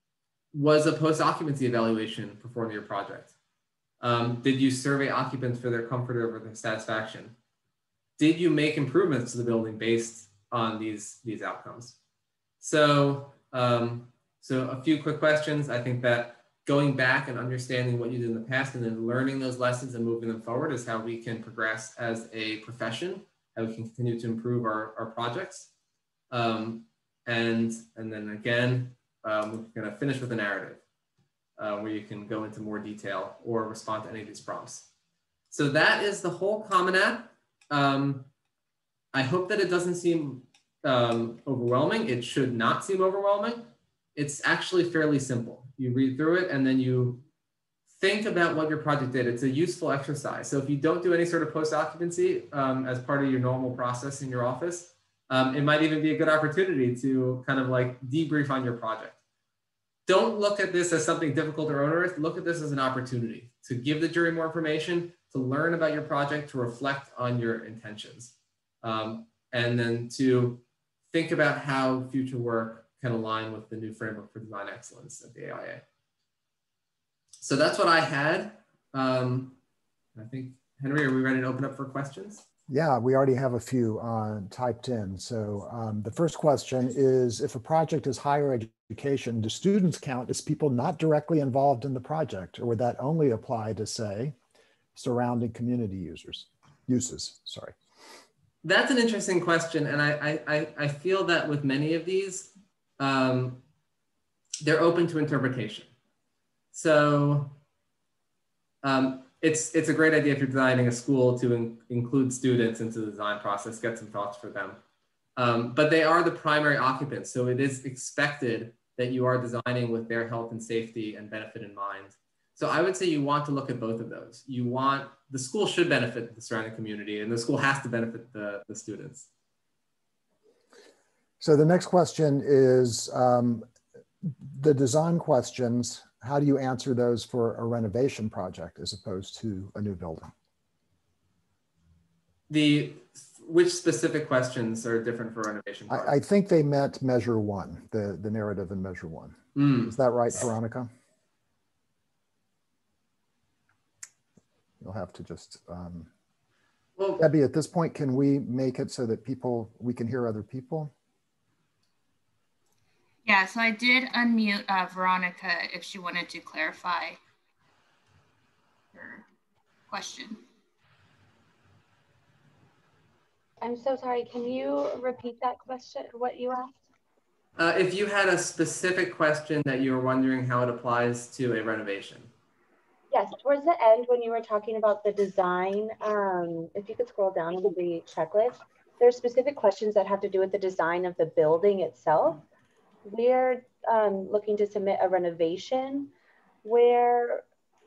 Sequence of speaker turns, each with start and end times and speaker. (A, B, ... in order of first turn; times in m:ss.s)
0:00.5-0:03.3 A
0:04.0-0:07.3 A
0:08.2-0:12.0 A
0:12.6-0:25.7 A
0:26.3-0:30.8 A
0:31.6-0:34.9 A
0:35.5-0:38.3 A
0:39.1-0:47.2 A
0:47.9-0:59.2 A
1:00.0-1:15.8 A
1:17.4-1:19.6 A
1:20.1-1:22.4 A
1:22.7-1:34.3 B
1:34.9-1:37.7 B
1:38.6-1:43.6 A
1:44.6-1:45.9 A
1:46.7-1:47.6 A
1:48.8-1:54.8 A
1:55.4-2:09.3 A
2:11.4-2:13.7 B
2:14.4-2:20.3 B
2:22.5-2:26.1 A
2:25.9-2:30.9 B
2:29.5-2:29.9 A
2:34.8-2:36.1 B
2:37.2-2:40.9 B
2:43.2-2:47.2 C
2:48.9-2:49.2 C
2:49.9-2:50.4 C
2:53.6-2:56.7 D
2:57.6-3:02.3 A
3:03.1-3:12.4 D
3:13.0-3:16.1 D
3:16.6-3:17.4 D